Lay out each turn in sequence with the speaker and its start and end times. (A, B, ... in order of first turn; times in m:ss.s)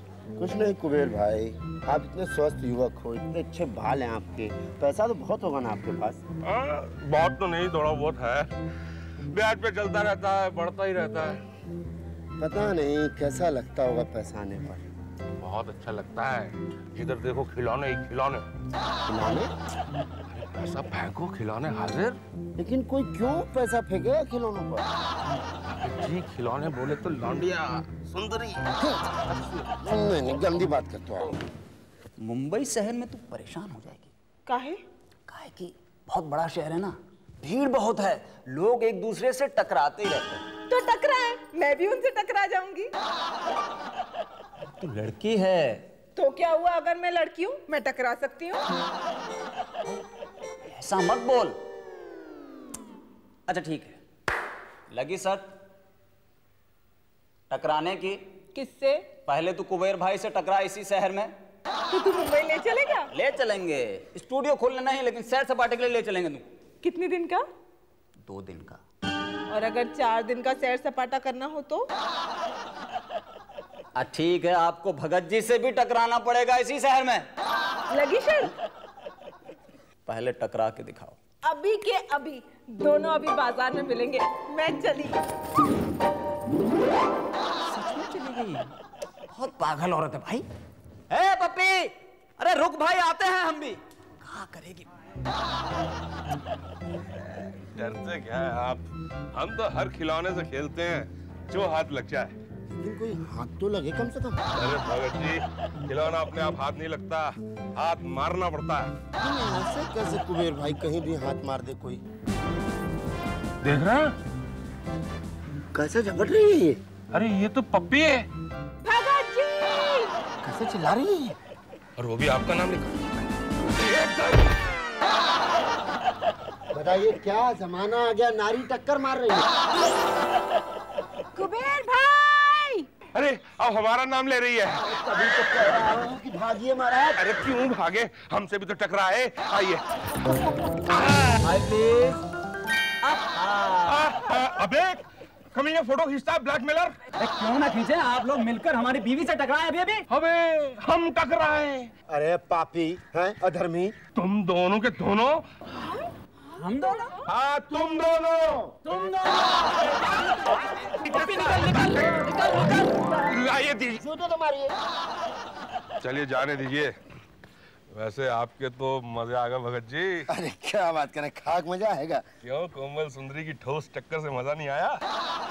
0:00.4-0:06.2 A
0:06.4-0:08.5 B
0:09.3-0:11.4 B
0:12.4-0:14.9 A
0:15.4-0:18.5 B
0:19.1-0:19.5 A
0:20.3-0:22.2 B
0:22.6-0:24.9 A
0:25.7-0:28.8 B
0:29.7-0:31.4 A
0:32.2-0:34.1 C
0:34.5-0:34.8 D
0:35.3-0:40.5 C
0:40.7-0:42.9 D
0:44.8-0:45.9 C
0:46.2-0:48.7 D
0:50.6-0:51.6 C
0:53.5-0:54.0 C
0:54.9-0:55.5 C
0:57.5-0:58.2 C
0:58.6-0:59.1 D
0:59.2-1:01.3 C
1:01.9-1:03.1 D
1:03.1-1:06.5 C
1:06.8-1:07.4 D
1:08.2-1:08.8 C
1:09.5-1:11.9 D
1:14.0-1:17.3 C
1:17.9-1:18.5 D
1:20.0-1:21.2 C
1:21.4-1:25.2 D
1:27.6-1:28.7 C
1:29.3-1:30.5 C
1:31.1-1:34.9 C
1:37.6-1:38.8 B
1:39.3-1:42.4 B
1:42.7-1:44.4 A
1:44.5-1:48.9 B
1:49.2-1:52.0 A
1:53.6-1:54.1 B
1:55.7-1:56.8 A
1:57.1-1:58.3 B
1:58.8-2:00.1 D
2:00.4-2:01.4 A
2:02.0-2:03.0 B
2:03.8-2:04.6 B
2:06.7-2:09.4 A
2:11.4-2:12.9 D
2:13.1-2:14.9 B
2:14.8-2:17.3 A
2:17.2-2:19.8 B
2:21.4-2:22.2 C
2:23.0-2:24.1 C
2:23.8-2:27.0 B
2:27.2-2:30.0 C
2:30.1-2:31.9 B
2:32.1-2:34.0 A
2:34.2-2:35.4 B
2:36.6-2:37.2 C
2:36.8-2:37.2 D
2:37.2-2:38.8 B
2:38.8-2:39.6 C
2:41.0-2:42.0 B
2:41.0-2:42.8 C
2:43.2-2:44.0 B
2:44.0-2:44.8 A
2:46.0-2:46.9 B
2:47.9-2:50.3 B
2:50.3-2:52.2 A
2:52.4-2:55.0 B